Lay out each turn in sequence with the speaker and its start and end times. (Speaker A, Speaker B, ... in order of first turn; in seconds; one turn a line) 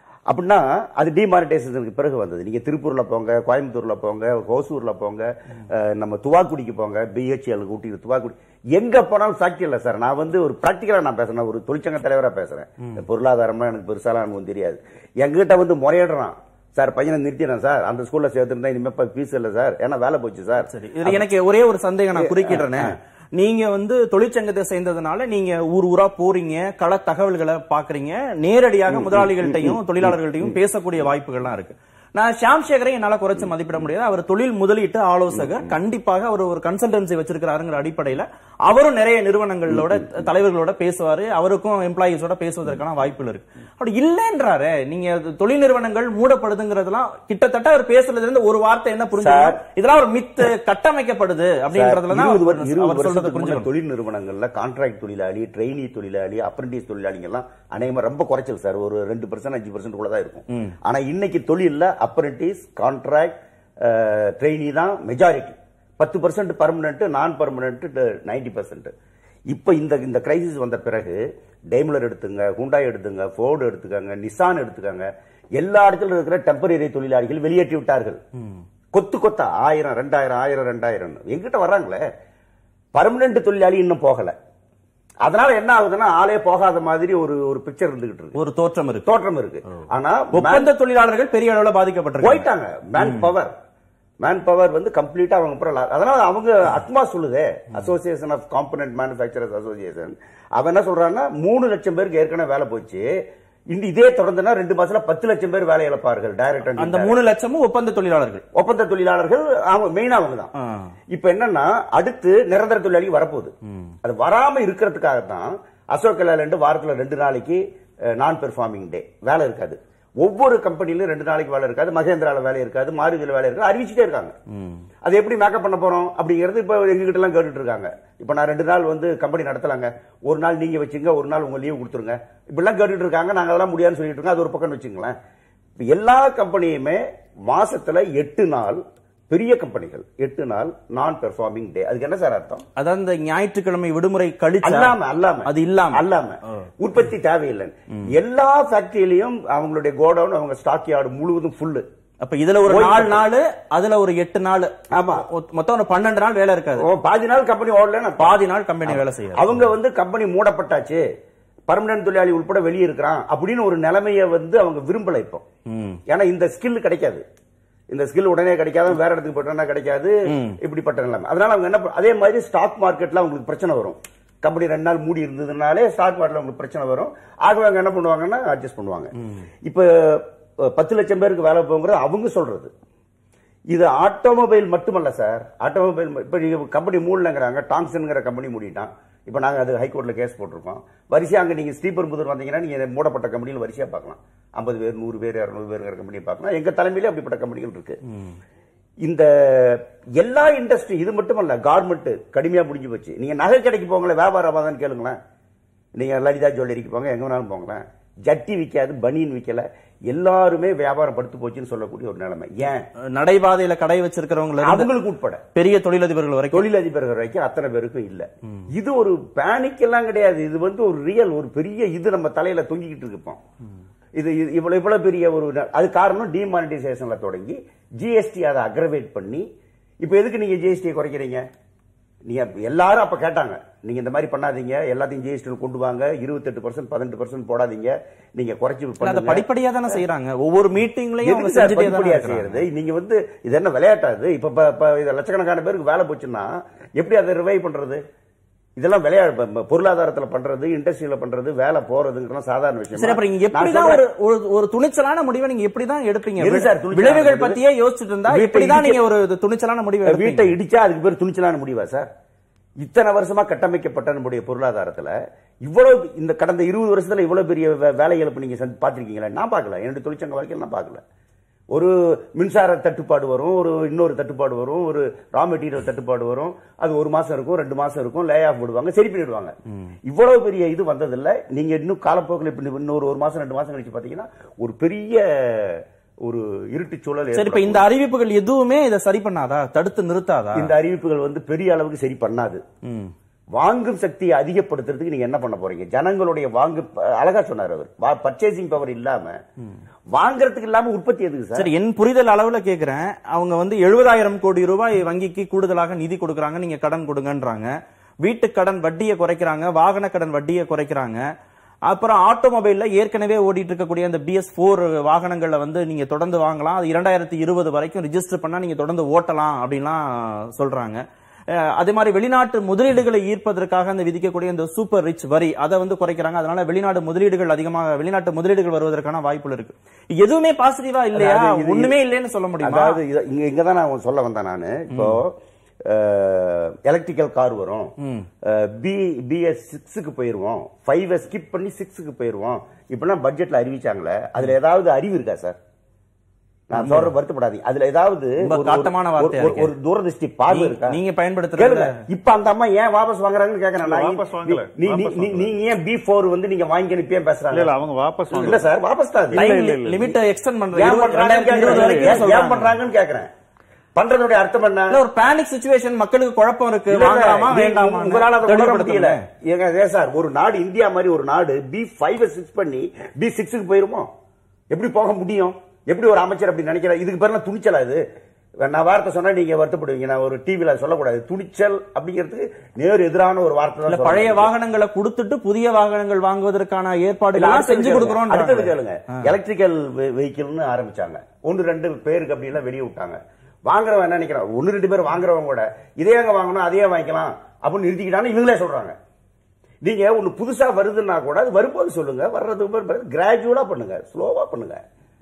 Speaker A: 0.3-21.2
Speaker B: 20.6-53.7
Speaker A: 22.1-22.9
Speaker A: 28.9-30.6
Speaker A: 35.3-35.7
Speaker A: 39.7-40.0
Speaker A: 49.2-49.6
Speaker A: 51.7-68.9
Speaker A: 69.5-78.2
Speaker A: 78.9-82.0
Speaker A: 82.9-84.3
Speaker A: 85.2-88.4
Speaker B: 88.3-89.1
Speaker A: 89.1-90.7
Speaker B: 90.3-92.5
Speaker A: 92.2-93.5
Speaker B: 93.0-93.2
Speaker A: 94.2-103.1
Speaker A: 103.7-107.2
Speaker B: 106.8-108.4
Speaker A: 108.5-110.5
Speaker B: 110.6-110.9
Speaker A: 111.1-117.6
Speaker A: 118.2-124.3
Speaker B: 124.5-124.8
Speaker A: 125.0-135.2
Speaker A: 135.8-142.7
Speaker B: 142.8-144.9
Speaker A: 144.6-151.8
Speaker B: 145.5-146.0
Speaker B: 152.2-156.9
Speaker A: 152.7-153.3
Speaker A: 154.9-155.3
Speaker A: 156.8-161.0
Speaker B: 158.2-159.7
Speaker A: 161.7-165.4
Speaker B: 165.7-166.0
Speaker A: 166.1-167.2
Speaker A: 167.9-179.1
Speaker B: 170.3-170.6
Speaker A: 179.7-182.7
Speaker A: 183.7-198.0
Speaker A: 199.0-205.2
Speaker A: 206.0-212.8
Speaker B: 213.1-214.9
Speaker A: 214.6-215.4
Speaker B: 215.5-216.7
Speaker A: 216.5-223.4
Speaker A: 224.2-229.4
Speaker A: 230.0-231.4
Speaker A: 232.3-240.0
Speaker B: 239.0-242.6
Speaker A: 241.2-248.0
Speaker A: 248.8-254.0
Speaker B: 253.0-260.5
Speaker A: 256.4-257.6
Speaker A: 258.3-259.0
Speaker A: 260.1-262.1
Speaker A: 262.8-271.0
Speaker A: 271.7-279.5
Speaker A: 280.1-287.9
Speaker B: 287.3-290.7
Speaker A: 290.6-292.6
Speaker B: 292.9-293.1
Speaker A: 293.6-299.4
Speaker A: 300.1-301.7
Speaker B: 301.5-307.7
Speaker B: 308.2-311.2
Speaker B: 311.9-333.0
Speaker A: 331.1-332.0
Speaker A: 332.6-345.6
Speaker B: 334.9-335.2
Speaker B: 338.0-338.3
Speaker A: 346.7-351.0
Speaker B: 346.7-347.1
Speaker B: 348.4-349.7
Speaker B: 350.5-352.0
Speaker A: 351.6-357.8
Speaker C: 353.8-355.6
Speaker C: 357.5-358.7
Speaker A: 358.3-359.5
Speaker C: 359.3-360.1
Speaker B: 359.3-362.7
Speaker A: 360.7-363.3
Speaker C: 361.6-362.1
Speaker A: 364.0-365.0
Speaker B: 364.9-369.2
Speaker A: 366.9-374.1
Speaker A: 374.7-378.0
Speaker A: 378.6-384.5
Speaker B: 383.9-389.1
Speaker A: 387.3-399.0
Speaker A: 399.8-404.8